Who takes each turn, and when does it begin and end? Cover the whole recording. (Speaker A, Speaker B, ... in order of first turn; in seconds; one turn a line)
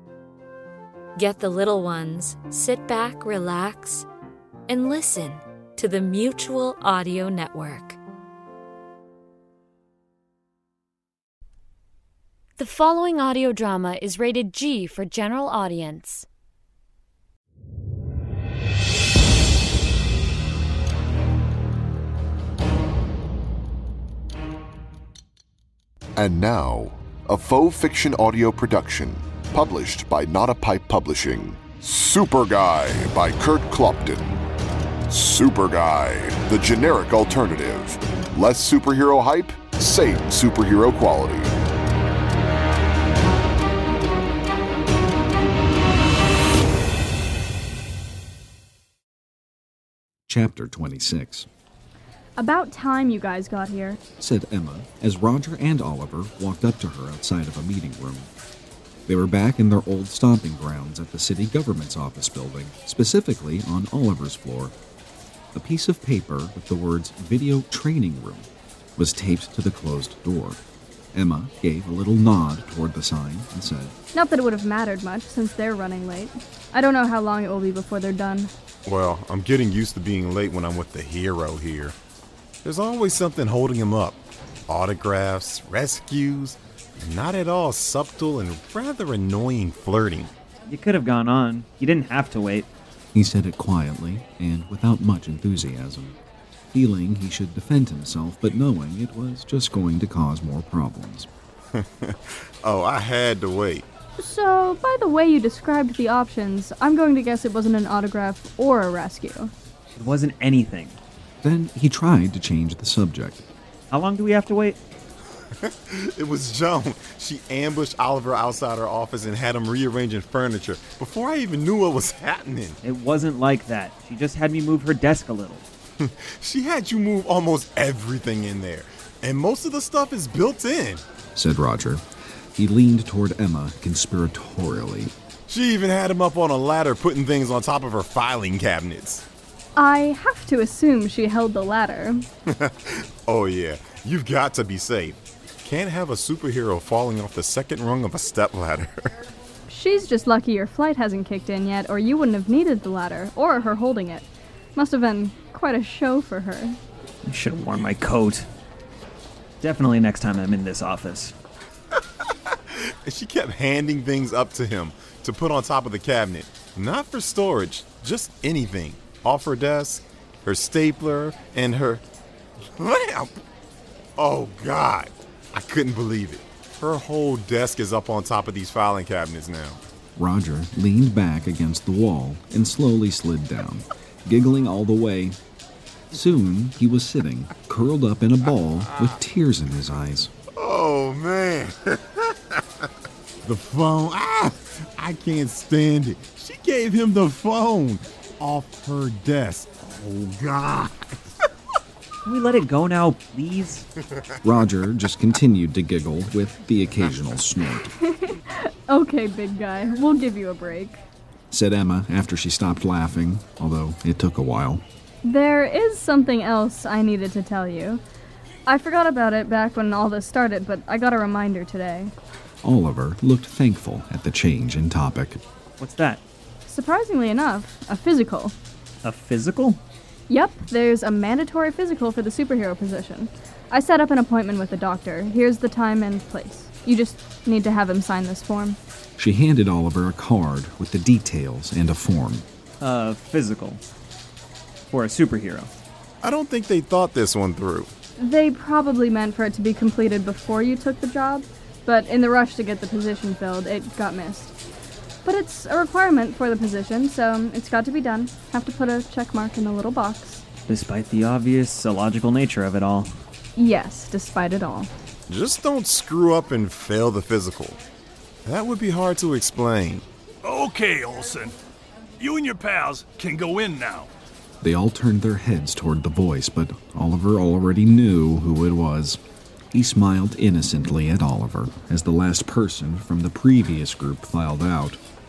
Speaker A: 1.2-4.1
Speaker A: 4.7-8.0
Speaker A: 12.6-16.3
Speaker B: 26.2-34.4
Speaker B: 35.1-41.5
Speaker C: 50.3-51.5
Speaker D: 52.4-54.0
Speaker C: 54.2-58.3
Speaker C: 59.1-64.8
Speaker C: 65.5-70.6
Speaker C: 71.1-73.9
Speaker D: 74.1-78.5
Speaker E: 78.9-82.0
Speaker E: 82.6-84.2
Speaker E: 84.7-90.3
Speaker F: 90.7-92.7
Speaker C: 93.1-96.2
Speaker C: 96.7-101.3
Speaker E: 101.8-103.8
Speaker D: 104.2-109.5
Speaker F: 109.9-111.0
Speaker C: 111.4-113.5
Speaker F: 113.9-114.8
Speaker E: 115.6-122.8
Speaker F: 122.8-125.7
Speaker E: 126.0-131.0
Speaker C: 131.3-132.0
Speaker C: 132.6-135.1
Speaker E: 135.5-139.2
Speaker D: 139.8-142.2
Speaker E: 142.6-149.0
Speaker D: 149.7-156.8
Speaker F: 157.2-158.5
Speaker F: 159.6-161.3
Speaker E: 163.1-172.0
Speaker E: 172.8-173.3
Speaker E: 174.2-179.8
Speaker C: 180.2-185.4
Speaker C: 186.1-190.3
Speaker E: 190.6-192.3
Speaker E: 193.4-201.2
Speaker F: 202.2-203.9
Speaker C: 204.4-207.9
Speaker D: 208.0-211.0
Speaker C: 211.5-214.8
Speaker D: 215.2-218.0
Speaker D: 218.7-222.1
Speaker C: 222.6-225.4
Speaker F: 225.8-226.2
Speaker D: 226.7-228.6
Speaker F: 229.0-229.8
Speaker D: 230.3-238.8
Speaker C: 239.2-242.5
Speaker F: 242.8-243.8
Speaker F: 244.9-245.7
Speaker E: 246.2-247.9
Speaker D: 248.2-254.6
Speaker D: 255.2-260.4
Speaker F: 260.7-263.1
Speaker D: 263.6-264.9
Speaker E: 265.3-267.8
Speaker E: 268.4-270.1
Speaker G: 270.4-271.6
Speaker G: 272.2-274.1
Speaker C: 274.6-279.2
Speaker C: 279.7-285.0